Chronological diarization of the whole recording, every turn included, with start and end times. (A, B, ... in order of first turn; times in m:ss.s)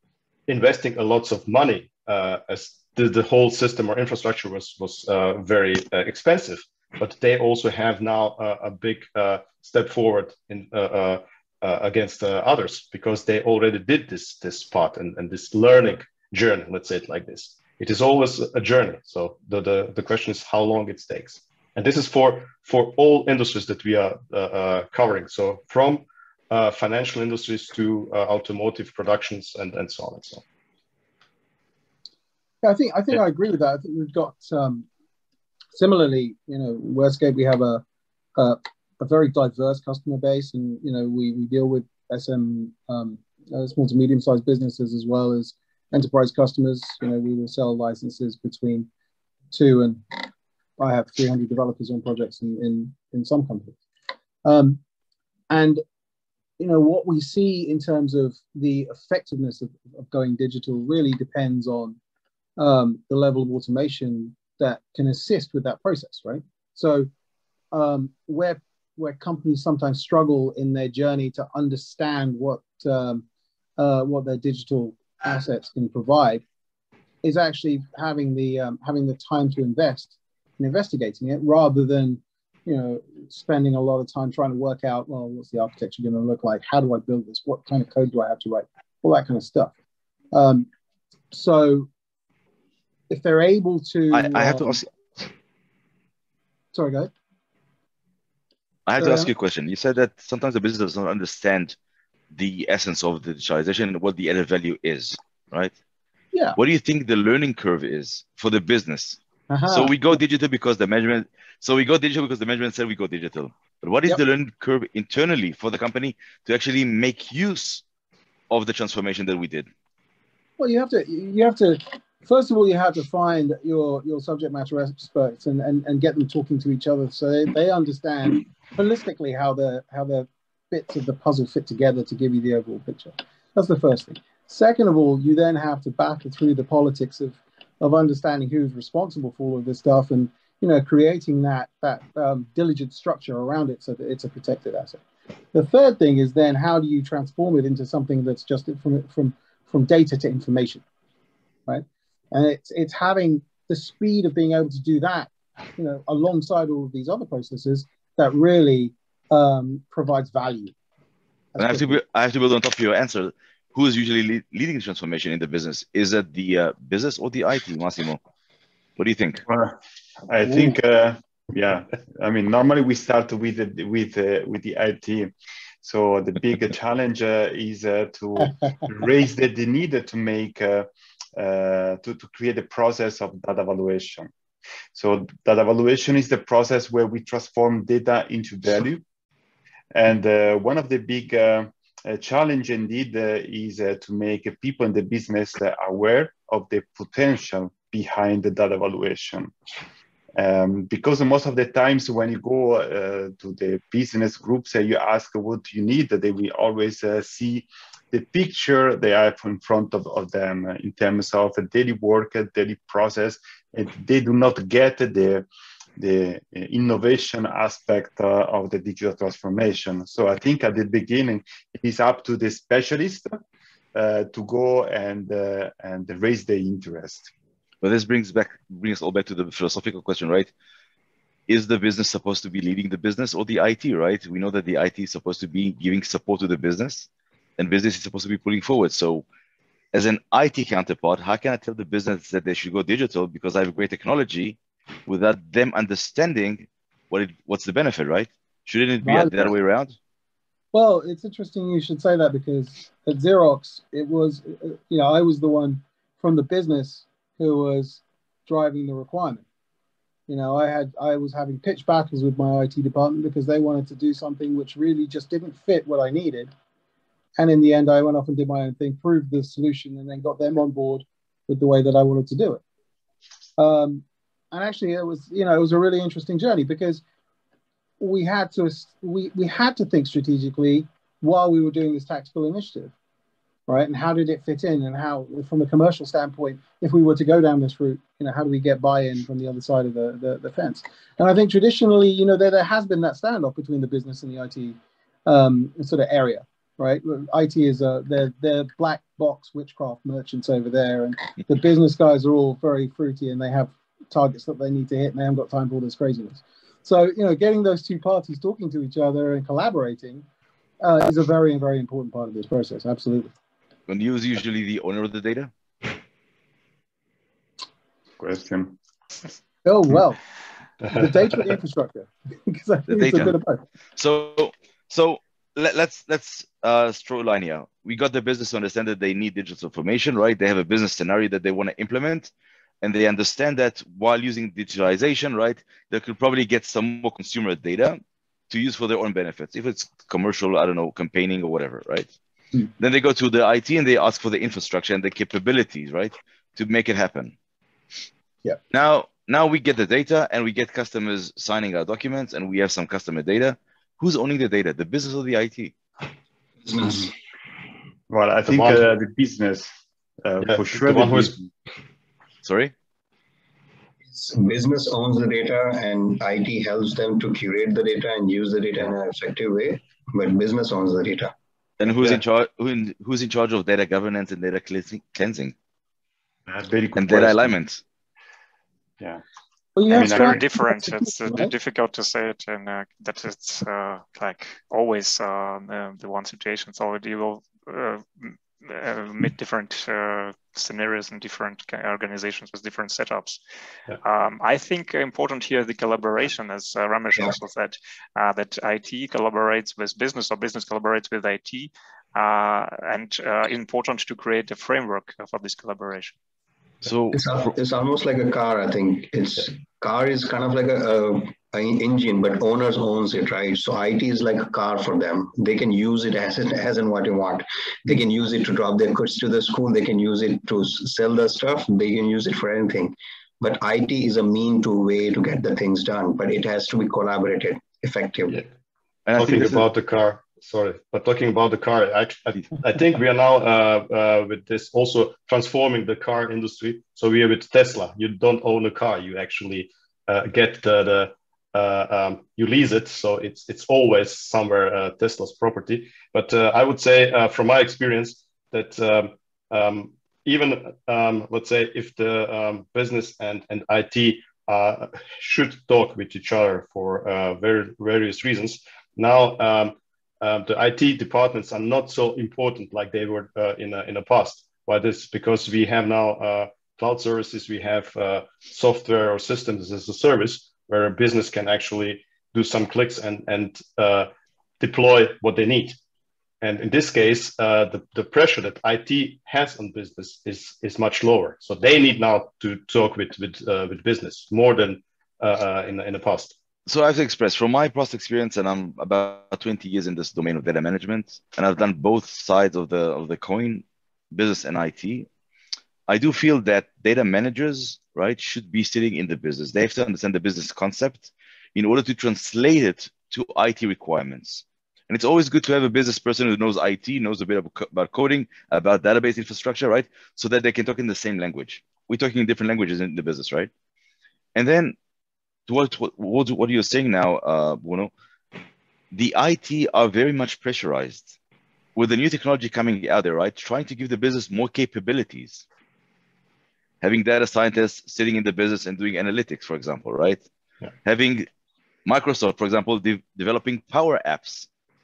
0:00.5-0:30.4 A
0:32.6-0:34.8 B
0:35.7-0:37.8 B
0:38.4-0:48.9 B
0:49.5-0:50.3 B
0:50.8-0:53.8 B
0:54.4-0:54.8 B
0:55.5-0:55.8 B
0:56.6-1:02.0 B
1:02.6-1:07.1 B
1:07.7-1:13.2 B
1:13.8-1:16.4 B
1:17.2-1:29.7 B
1:30.3-1:30.7 B
1:31.3-1:31.9 B
1:33.1-1:34.8 B
1:34.1-1:34.9 C
1:36.7-1:37.1 B
1:38.8-1:41.8 C
1:39.0-1:39.3 B
1:42.3-1:45.7 C
1:46.6-1:57.8 C
1:49.5-1:50.0 B
1:58.5-1:59.7 C
2:00.6-2:25.0 B
2:25.5-2:30.8 B
2:31.7-2:40.7 B
2:41.5-2:42.0 B
2:41.6-2:48.2 C
2:49.0-2:49.4 C
2:49.4-3:04.3 D
2:50.4-2:50.8 B
3:04.9-3:09.0 D
3:09.9-3:19.5 D
3:20.3-3:35.5 D
3:36.0-3:43.4 D
3:43.9-3:47.3 D
3:47.8-3:50.5 C
3:51.5-3:59.2 C
3:59.9-4:10.0 C
4:09.0-4:09.5 B
4:10.7-4:19.4 B
4:20.3-4:26.5 B
4:27.4-4:32.6 B
4:33.6-4:37.0 B
4:38.0-4:42.9 B
4:43.7-5:10.2 B
5:10.8-5:13.3 B
5:13.9-5:15.5 C
5:18.2-5:18.8 D
5:19.6-5:20.2 B
5:20.9-5:23.6 B
5:22.9-5:23.3 C
5:24.0-5:32.3 C
5:32.8-5:42.1 C
5:42.8-5:47.3 C
5:48.7-5:55.7 C
5:56.6-5:57.0 E
5:56.8-5:57.1 D
5:58.1-5:59.7 D
5:58.4-5:58.9 A
6:00.2-6:01.5 D
6:00.4-6:01.3 A
6:02.4-6:02.7 C
6:04.1-6:11.3 E
6:11.8-6:15.5 C
6:16.5-6:17.5 D
6:16.9-6:17.8 C
6:19.8-6:21.5 B
6:19.9-6:20.4 D
6:19.9-6:33.4 F
6:34.0-6:46.2 F
6:46.8-6:47.3 C
6:47.1-7:08.4 E
7:09.0-7:09.6 C
7:09.2-7:55.8 A
7:56.4-8:06.3 A
8:06.6-8:15.1 C
8:15.9-8:33.5 C
8:34.3-8:34.8 C
8:35.5-8:37.9 C
8:38.9-8:41.2 C
8:41.7-8:45.4 C
8:46.8-8:50.2 C
8:50.8-8:51.3 C
8:51.8-8:54.5 C